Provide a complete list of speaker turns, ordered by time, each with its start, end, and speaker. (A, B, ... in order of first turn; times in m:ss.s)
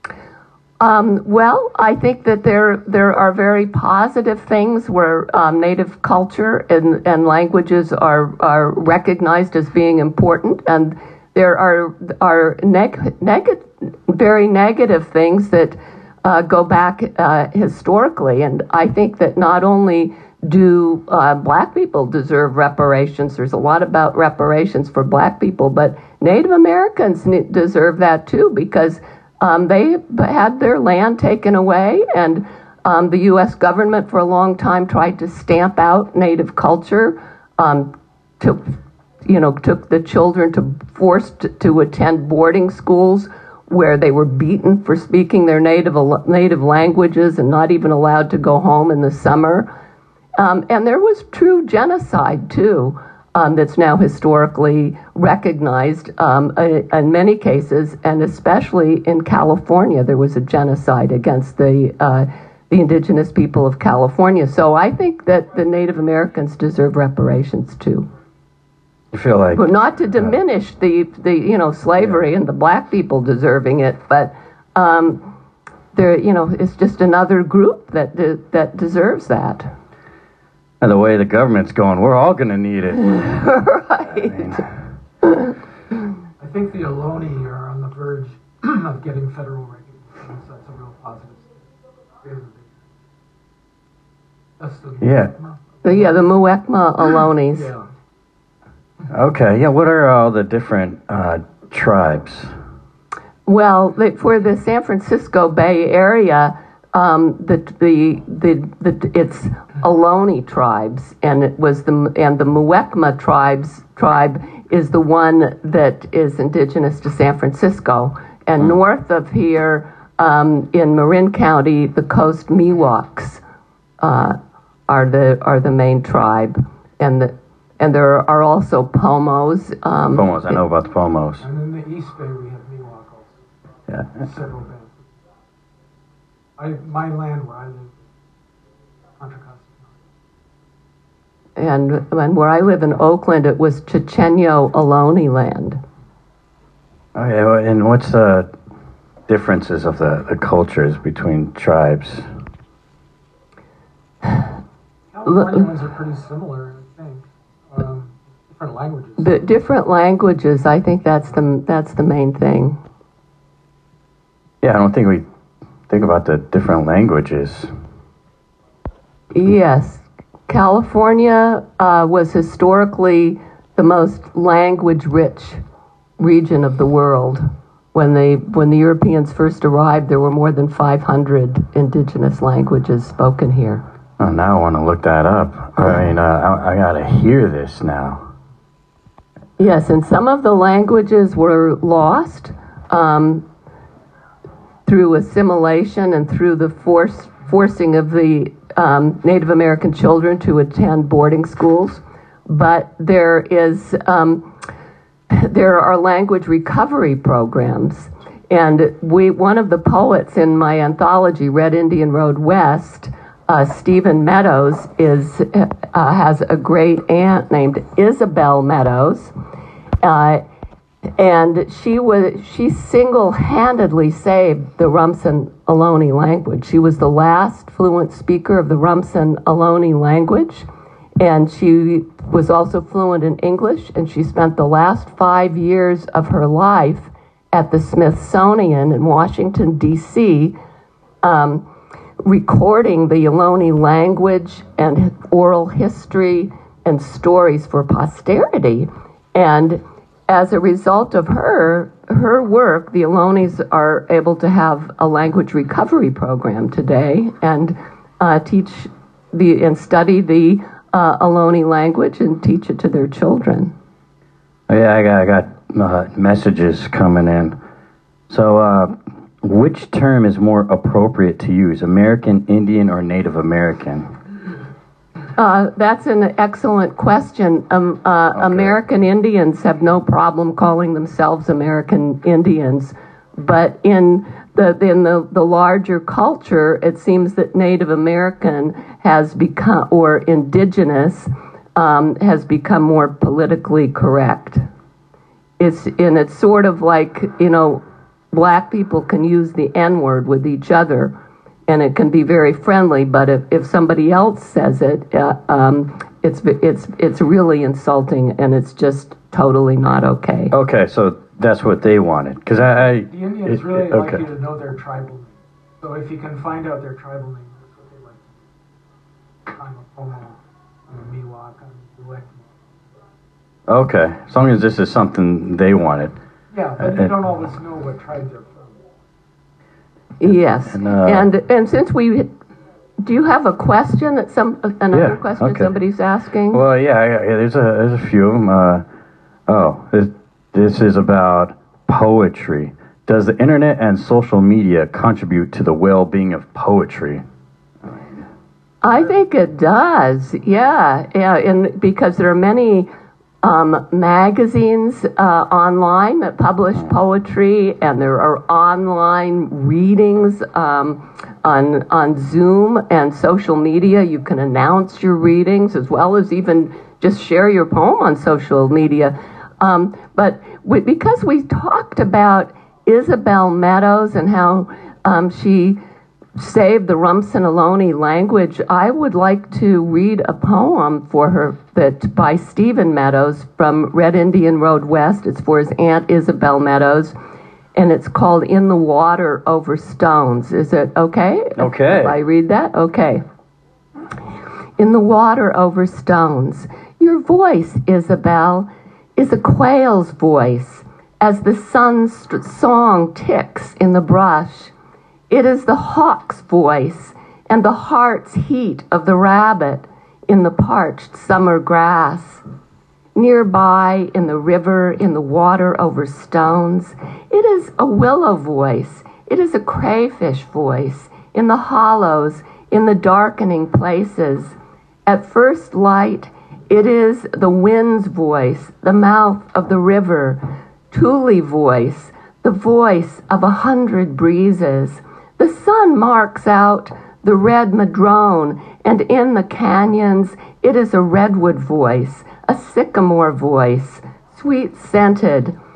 0:00.8-0:49.7 A
0:50.4-1:08.1 A
1:09.1-1:09.7 B
1:09.5-1:15.2 A
1:15.9-1:19.7 A
1:20.8-1:23.5 B
1:23.2-1:24.6 A
1:24.1-1:24.6 B
1:26.4-1:31.6 C
1:32.2-1:32.7 C
1:34.6-1:36.3 C
1:35.0-1:35.3 B
1:35.8-1:37.7 A
1:37.5-1:37.8 C
1:39.1-1:42.5 B
1:43.5-2:03.4 A
2:04.0-2:10.6 A
2:10.2-2:11.4 B
2:11.4-2:13.4 C
2:13.9-2:14.3 B
2:14.2-2:15.1 C
2:16.6-2:18.0 C
2:19.2-2:20.0 C
2:21.6-2:25.8 A
2:27.2-2:28.5 B
2:29.3-2:32.3 B
2:35.1-2:39.4 C
2:35.3-2:35.6 A
2:39.2-2:42.8 A
2:44.6-2:45.2 B
2:45.9-2:47.7 B
2:49.3-2:55.6 A
2:56.2-3:03.8 A
3:04.2-3:08.3 B
3:09.6-3:13.4 A
3:14.8-3:24.5 A
3:25.3-3:39.3 A
3:40.0-3:40.4 A
3:41.2-3:50.7 A
3:51.2-4:00.6 A
4:01.2-4:01.7 A
4:02.2-4:23.7 A
4:24.7-4:27.6 B
4:28.3-4:34.1 B
4:35.4-4:54.6 A
4:38.3-4:38.8 B
4:55.6-4:57.8 A
4:58.3-5:01.1 A
5:01.7-5:10.6 A
5:10.5-5:14.2 B
5:13.1-5:18.4 C
5:19.5-5:22.9 C
5:23.7-5:26.2 B
5:26.5-5:28.8 C
5:26.8-5:27.1 B
5:30.2-5:32.3 A
5:30.7-5:31.3 B
5:33.0-5:36.6 A
5:34.9-5:35.7 B
5:36.5-5:38.8 B
5:39.5-5:47.2 B
5:48.8-5:52.9 A
5:53.4-6:15.8 A
6:16.4-6:27.2 A
6:27.8-6:33.2 A
6:31.6-6:32.2 B
6:34.8-6:44.7 A
6:45.3-6:52.4 A
6:53.2-7:25.6 A